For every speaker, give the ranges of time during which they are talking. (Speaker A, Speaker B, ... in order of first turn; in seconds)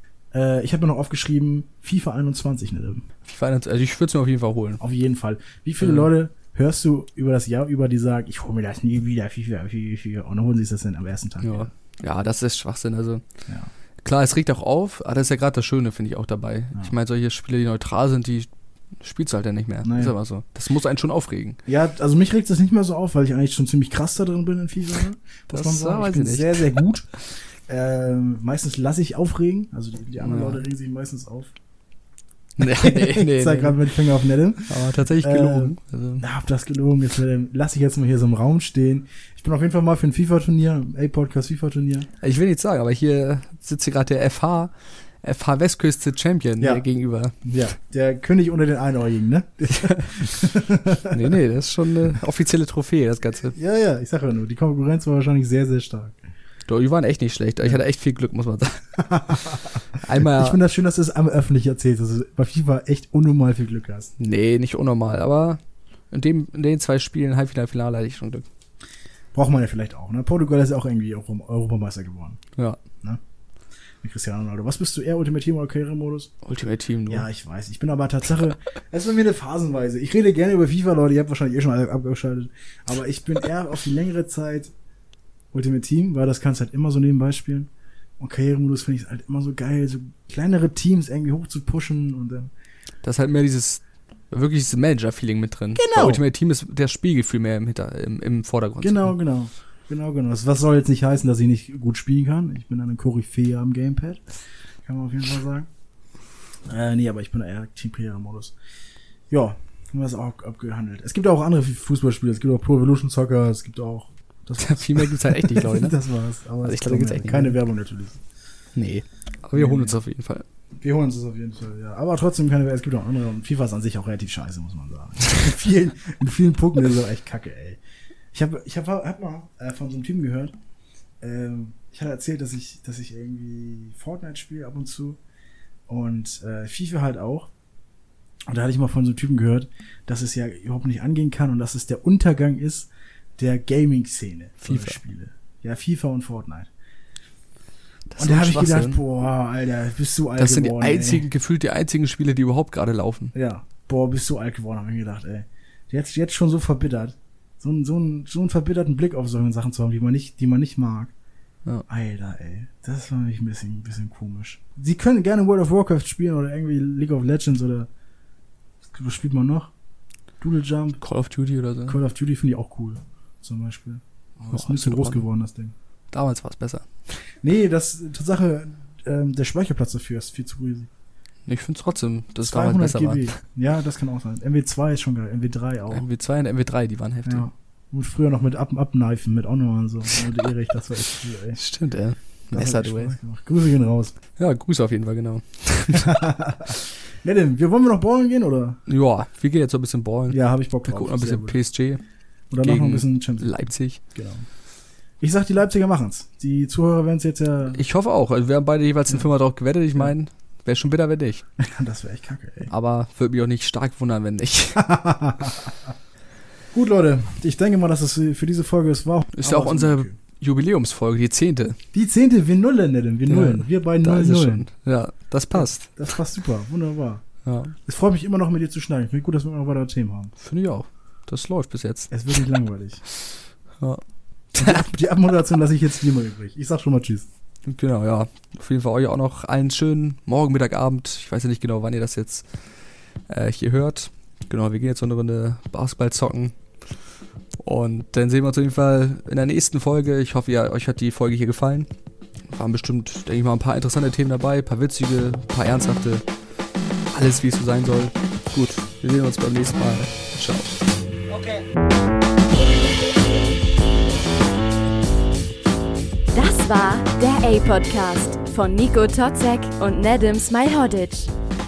Speaker A: 0.3-3.1, 4.8-11.7, 19.9-20.1, 21.7-27.1, 27.7-31.5, 32.6-42.1, 47.4-51.4, 53.5-56.2, 59.0-64.1, 69.3-72.4, 74.0-76.3, 77.1-84.7, 85.5-92.5, 95.8-96.2, 98.8-104.2, 104.8-105.7, 106.7-108.5, 109.3-118.2, 119.5-120.0, 120.8-127.8, 128.3-130.6, 131.2-135.2, 135.9-137.5, 138.5-146.7, 148.2-151.3, 153.3-161.1, 161.9-167.9, 168.9-169.7, 170.4-171.0, 171.9-175.7, 177.4-180.9, 182.5-186.1, 187.2-191.6, 192.5-194.2, 195.9-198.8, 200.3-201.6, 202.5-203.5, 204.1-204.5, 205.2-207.8, 211.6-212.7, 214.8-215.7, 216.7-220.2, 221.9-224.7, 225.6-227.2, 227.9-230.3, 232.1-233.0, 234.6-237.3
Speaker B: 3.2-4.8, 5.8-6.1, 11.4-13.2, 14.0-18.5, 19.0-21.6, 25.5-26.7, 30.2-30.6, 32.6-33.8, 34.7-36.2, 42.2-47.4, 49.7-50.4, 51.1-53.5, 56.7-60.6, 64.2-65.6, 66.1-68.5, 76.5-77.3, 93.0-99.2, 114.6-116.0, 116.6-117.6, 118.8-120.5, 144.6-145.0, 148.1-149.0, 150.4-153.3, 171.0-172.0, 174.4-175.3, 176.1-176.9, 181.5-183.3, 185.9-187.5, 191.6-193.2, 194.4-196.2, 198.9-202.0, 202.6-204.0, 207.7-211.4, 212.7-214.8, 219.3-221.8, 223.3-226.0, 227.4-227.8, 230.4-232.1, 234.5-234.8, 237.7-242.5, 243.3-246.6, 247.6-251.9, 252.5-256.2, 257.1-260.8
Speaker C: 266.3-271.3